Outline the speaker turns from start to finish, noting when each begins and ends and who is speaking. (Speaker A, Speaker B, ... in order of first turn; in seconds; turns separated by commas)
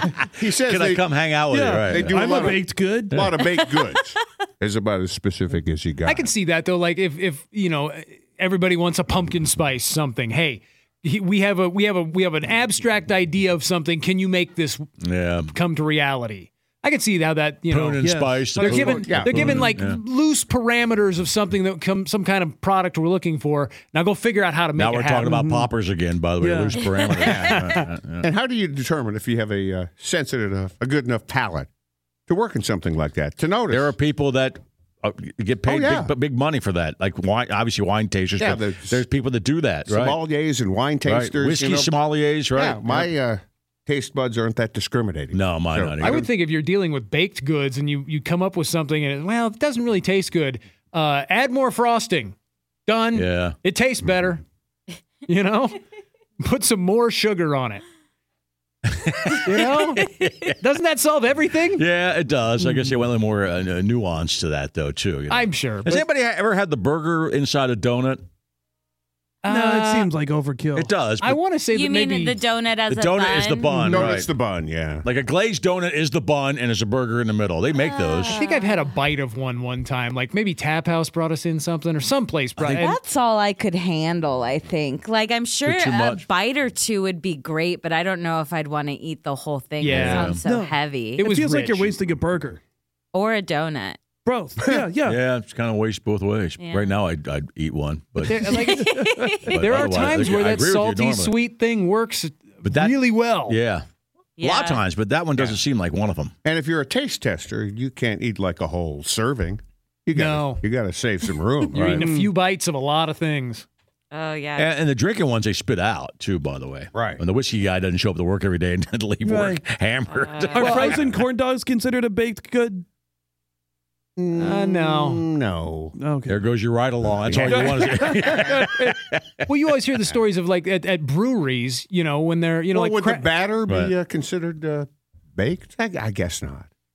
Speaker A: 0.3-1.1, Speaker B: 0.7-2.5, Speaker C: 1.5-3.3, Speaker A: 1.9-6.3, Speaker D: 6.0-14.8, Speaker B: 15.0-15.5, Speaker D: 15.5-18.0, Speaker B: 17.7-20.0, Speaker C: 18.0-19.6, Speaker D: 18.6-25.3, Speaker A: 18.6-19.5, Speaker B: 24.8-28.3, Speaker C: 25.2-25.7, Speaker C: 26.4-26.8, Speaker A: 27.2-31.7, Speaker D: 27.4-27.8, Speaker A: 32.3-34.0, Speaker B: 33.7-40.2, Speaker A: 35.6-36.1, Speaker A: 38.4-39.0, Speaker A: 39.9-41.9, Speaker B: 41.0-43.1, Speaker A: 42.5-46.3, Speaker B: 45.3-46.2, Speaker D: 46.0-52.3, Speaker D: 52.9-54.4, Speaker B: 53.1-53.5, Speaker D: 55.2-55.8, Speaker D: 56.4-57.8, Speaker B: 59.0-60.5, Speaker D: 59.4-61.8, Speaker B: 61.8-68.2, Speaker C: 62.6-63.0, Speaker D: 65.3-66.0, Speaker D: 69.4-70.1, Speaker C: 69.5-71.0, Speaker B: 70.8-71.4, Speaker D: 71.2-72.4, Speaker E: 71.7-73.7, Speaker B: 72.9-74.3, Speaker A: 73.9-75.0, Speaker B: 75.0-78.3, Speaker E: 77.7-78.9, Speaker D: 78.3-83.0, Speaker B: 82.6-82.9, Speaker E: 82.8-91.3, Speaker B: 85.6-86.2, Speaker D: 89.8-90.4, Speaker B: 89.9-90.4, Speaker C: 90.3-92.6, Speaker D: 91.2-91.9, Speaker E: 93.1-94.0, Speaker C: 94.2-95.2, Speaker B: 95.0-98.7, Speaker E: 96.6-97.0, Speaker D: 98.3-103.6, Speaker E: 98.5-99.5, Speaker C: 99.2-99.5, Speaker B: 99.4-101.3, Speaker B: 102.6-103.8, Speaker E: 104.4-104.8, Speaker B: 104.4-106.3, Speaker A: 105.3-105.6, Speaker A: 106.4-112.0, Speaker D: 110.1-110.6, Speaker D: 111.7-113.7, Speaker B: 111.7-112.1, Speaker C: 112.0-112.3, Speaker E: 114.1-114.7, Speaker B: 114.5-121.1, Speaker A: 116.9-117.2, Speaker C: 119.2-119.6, Speaker E: 120.1-120.9, Speaker C: 120.6-122.8, Speaker A: 124.2-125.9, Speaker D: 124.4-125.2, Speaker C: 125.9-126.5, Speaker B: 126.3-129.3, Speaker C: 127.2-128.9, Speaker A: 127.3-127.5, Speaker D: 129.4-133.2, Speaker A: 132.7-136.7, Speaker B: 133.7-133.9